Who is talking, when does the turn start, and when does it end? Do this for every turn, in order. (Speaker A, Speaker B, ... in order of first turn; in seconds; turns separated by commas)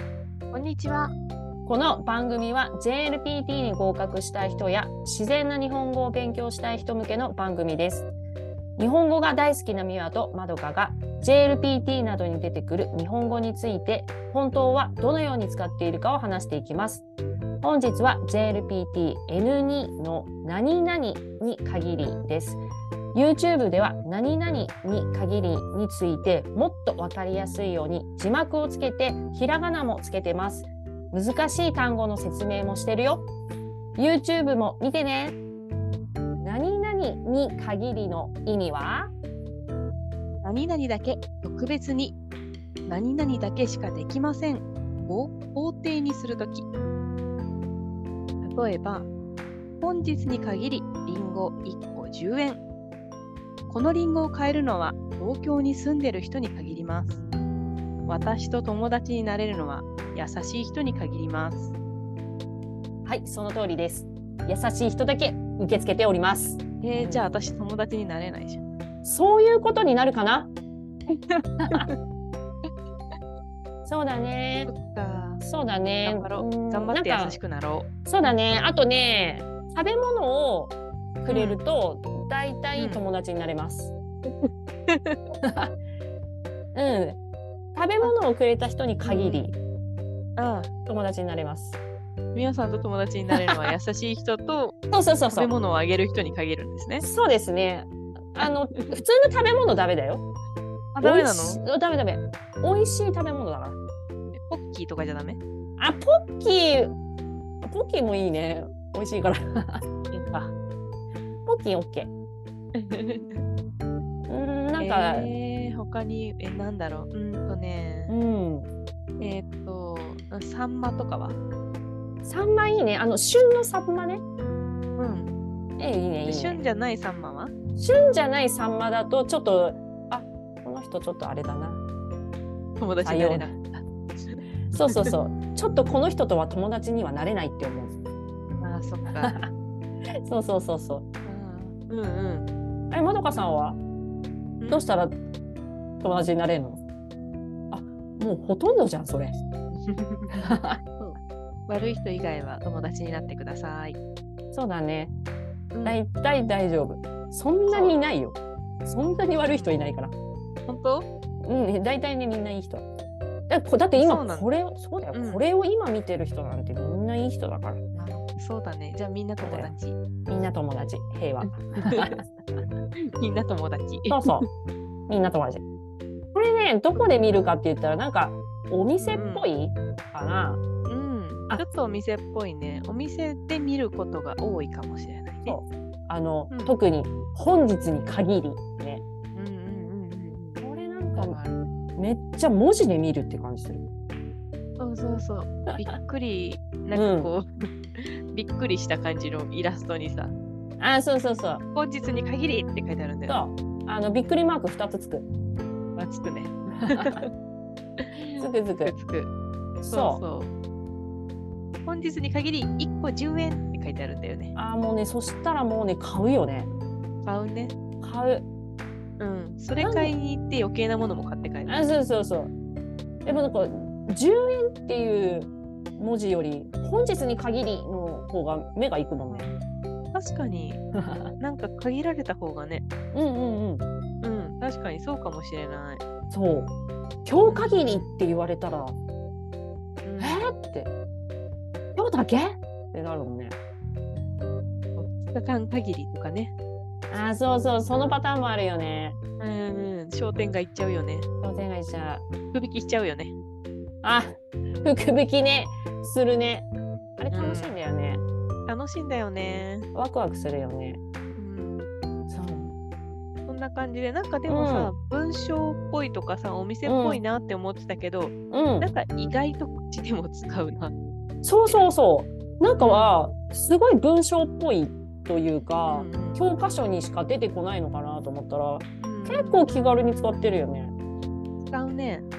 Speaker A: 0.5-1.1, Speaker B: 1.6-8.1, Speaker B: 8.8-17.1, Speaker B: 17.6-22.6, Speaker B: 23.1-33.3, Speaker B: 34.0-35.4, Speaker B: 36.4-39.1, Speaker A: 40.4-42.2, Speaker A: 42.9-46.6, Speaker A: 48.4-49.1, Speaker A: 49.8-52.6, Speaker A: 53.7-57.2, Speaker A: 58.1-61.7, Speaker B: 63.0-67.3, Speaker A: 66.8-68.6, Speaker B: 69.0-70.5, Speaker A: 71.1-71.9, Speaker B: 71.6-71.9, Speaker B: 73.8-74.7, Speaker A: 74.6-75.4, Speaker B: 75.4-77.4, Speaker A: 76.0-78.3, Speaker B: 78.1-83.9, Speaker A: 81.3-81.6, Speaker A: 82.8-83.0, Speaker A: 84.3-85.2, Speaker B: 85.4-85.7, Speaker B: 86.7-87.2, Speaker B: 87.8-89.5, Speaker A: 89.0-89.5, Speaker A: 90.4-90.7, Speaker B: 90.8-91.8, Speaker A: 92.3-94.8, Speaker B: 94.9-95.5, Speaker A: 95.3-97.1, Speaker B: 97.0-100.2, Speaker A: 98.4-99.0, Speaker A: 100.9-101.6, Speaker B: 101.0-103.8, Speaker A: 104.4-105.4, Speaker B: 105.8-106.9, Speaker B: 107.6-109.8, Speaker A: 110.1-110.5, Speaker B: 111.5-112.1, Speaker A: 112.8-113.4, Speaker B: 114.3-115.3, Speaker A: 114.8-118.2, Speaker B: 118.1-118.7, Speaker A: 119.2-121.4, Speaker B: 122.2-124.2, Speaker A: 125.0-125.4, Speaker B: 125.8-126.6, Speaker A: 126.2-127.5, Speaker B: 127.8-131.8, Speaker A: 132.8-135.1, Speaker B: 133.0-133.5, Speaker B: 134.7-138.0, Speaker A: 138.6-139.4, Speaker B: 139.2-139.5, Speaker B: 140.2-141.1, Speaker A: 141.2-142.5, Speaker B: 142.9-143.8, Speaker A: 144.6-144.9, Speaker B: 144.7-145.2, Speaker B: 146.0-146.8, Speaker B: 147.7-149.4, Speaker A: 149.7-154.0, Speaker B: 150.3-150.8, Speaker B: 154.5-155.1, Speaker A: 155.7-156.0, Speaker B: 155.8-160.1, Speaker A: 157.7-158.0, Speaker A: 159.3-159.8, Speaker A: 160.7-161.1, Speaker B: 161.4-162.8, Speaker B: 163.5-167.8, Speaker A: 163.9-164.5, Speaker A: 165.1-165.4, Speaker A: 167.9-170.0, Speaker B: 169.4-169.8, Speaker B: 170.3-172.6, Speaker A: 171.4-172.2, Speaker A: 173.2-174.5, Speaker B: 174.1-174.5, Speaker B: 175.1-175.6, Speaker B: 176.3-180.6, Speaker A: 179.0-179.5, Speaker A: 180.9-185.6, Speaker B: 185.5-189.0, Speaker A: 186.5-186.8, Speaker A: 189.3-190.6, Speaker B: 190.6-191.4, Speaker A: 191.1-191.6, Speaker B: 192.0-193.8, Speaker A: 194.8-200.3, Speaker B: 195.7-195.9, Speaker B: 196.9-197.3, Speaker B: 200.8-201.6, Speaker A: 201.7-203.4, Speaker B: 203.3-205.3, Speaker A: 206.0-207.3, Speaker B: 206.8-207.2, Speaker A: 208.0-209.3, Speaker B: 208.4-209.0, Speaker B: 209.8-210.2, Speaker A: 209.9-210.5, Speaker A: 211.8-214.6, Speaker B: 214.6-216.7, Speaker A: 217.2-217.7, Speaker B: 218.0-218.5, Speaker A: 219.2-221.8, Speaker B: 219.8-220.2, Speaker B: 221.7-222.5, Speaker B: 223.2-229.5, Speaker A: 229.3-229.6, Speaker A: 230.1-230.8, Speaker B: 230.9-231.3, Speaker A: 231.4-232.8, Speaker B: 233.1-233.8, Speaker A: 234.2-236.0, Speaker B: 236.3-236.7, Speaker B: 237.2-239.0, Speaker A: 237.4-238.2, Speaker A: 240.0-240.5, Speaker B: 240.2-240.9, Speaker B: 242.0-243.6, Speaker A: 245.0-246.5, Speaker B: 247.1-249.2, Speaker A: 249.4-251.3, Speaker B: 251.4-252.2, Speaker A: 252.5-253.3, Speaker B: 254.0-256.7, Speaker B: 257.2-258.2, Speaker A: 257.3-257.7, Speaker A: 258.7-259.9, Speaker B: 259.9-261.0, Speaker A: 261.4-261.9, Speaker B: 262.3-262.7, Speaker A: 263.5-270.9, Speaker B: 264.5-264.9, Speaker B: 266.9-267.2, Speaker B: 268.5-268.9, Speaker B: 271.4-280.9, Speaker A: 272.8-273.2, Speaker A: 275.9-276.4, Speaker A: 279.0-279.6, Speaker A: 281.7-282.2